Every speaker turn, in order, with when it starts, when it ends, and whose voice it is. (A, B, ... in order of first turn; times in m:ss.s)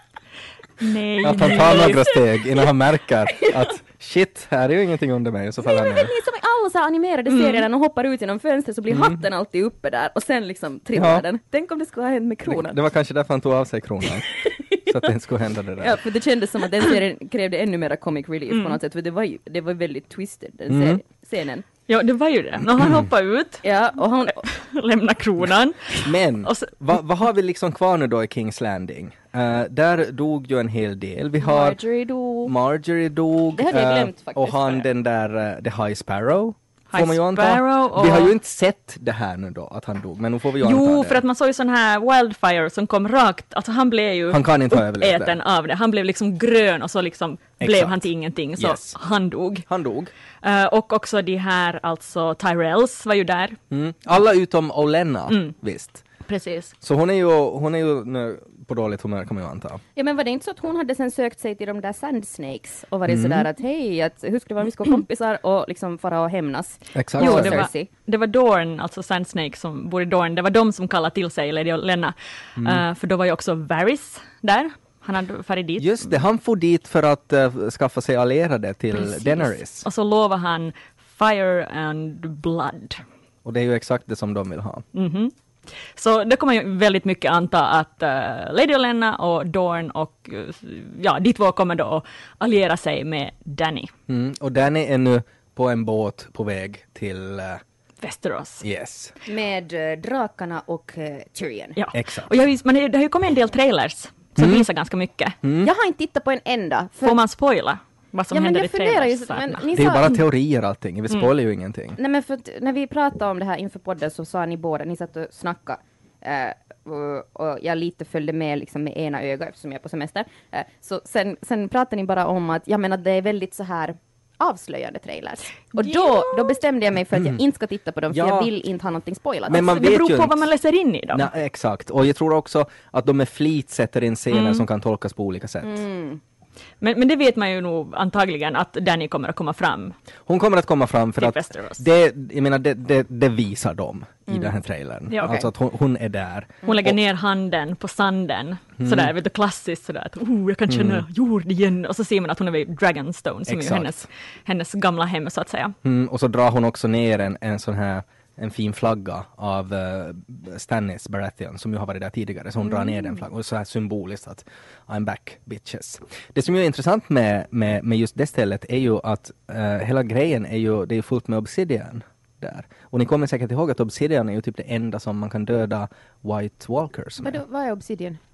0:00.8-0:02.3 A
0:01.2-0:06.1 B
0:05.6-0:12.8 C
0:07.3-0:07.6 A
0:08.9-0:09.2 B
0:10.9-0:11.2 B
0:12.5-0:16.0 B
0:15.8-0:21.6 C
0:18.5-0:18.8 A
0:20.7-0:21.0 B
0:21.9-0:23.6 A
0:23.6-0:24.4 C
0:24.4-0:26.7 A
0:26.0-0:31.8 B
0:31.4-0:32.5 C
0:32.4-0:41.2 B
0:33.5-0:34.8 C
0:36.9-0:38.3 A
0:40.6-0:49.7 A
0:44.3-0:45.4 B
0:47.6-0:48.0 B
0:48.6-0:48.9 B
0:49.7-0:50.1 B
0:50.4-0:53.6 A
0:53.7-0:56.0 B
0:56.3-0:56.7 C
0:56.8-0:59.8 B
1:00.0-1:07.9 C
1:03.1-1:03.4 B
1:06.9-1:07.7 B
1:07.2-1:16.1 A
1:12.6-1:12.8 B
1:15.8-1:19.8 B
1:18.9-1:23.0 A
1:23.4-1:24.8 B
1:24.9-1:25.3 A
1:26.0-1:33.9 A
1:34.1-1:37.6 B
1:38.0-1:38.6 A
1:38.6-1:39.1 B
1:39.2-1:41.8 C
1:41.8-1:45.4 A
1:41.9-1:42.3 B
1:44.4-1:44.6 B
1:45.4-1:45.7 B
1:45.6-1:47.2 C
1:47.0-1:49.6 A
1:48.3-1:50.2 C
1:49.8-1:52.0 B
1:52.0-2:09.7 C
2:05.8-2:06.5 A
2:07.1-2:07.4 B
2:08.1-2:08.5 B
2:09.5-2:10.4 B
2:09.5-2:11.3 A
2:11.1-2:15.8 B
2:14.3-2:14.6 A
2:15.6-2:16.2 C
2:16.8-2:19.9 A
2:20.3-2:27.0 B
2:21.2-2:21.8 A
2:25.1-2:25.4 A
2:26.6-2:35.8 A
2:28.8-2:29.1 B
2:30.7-2:31.0 B
2:33.5-2:34.0 B
2:35.8-2:57.4 B
2:57.2-2:58.2 C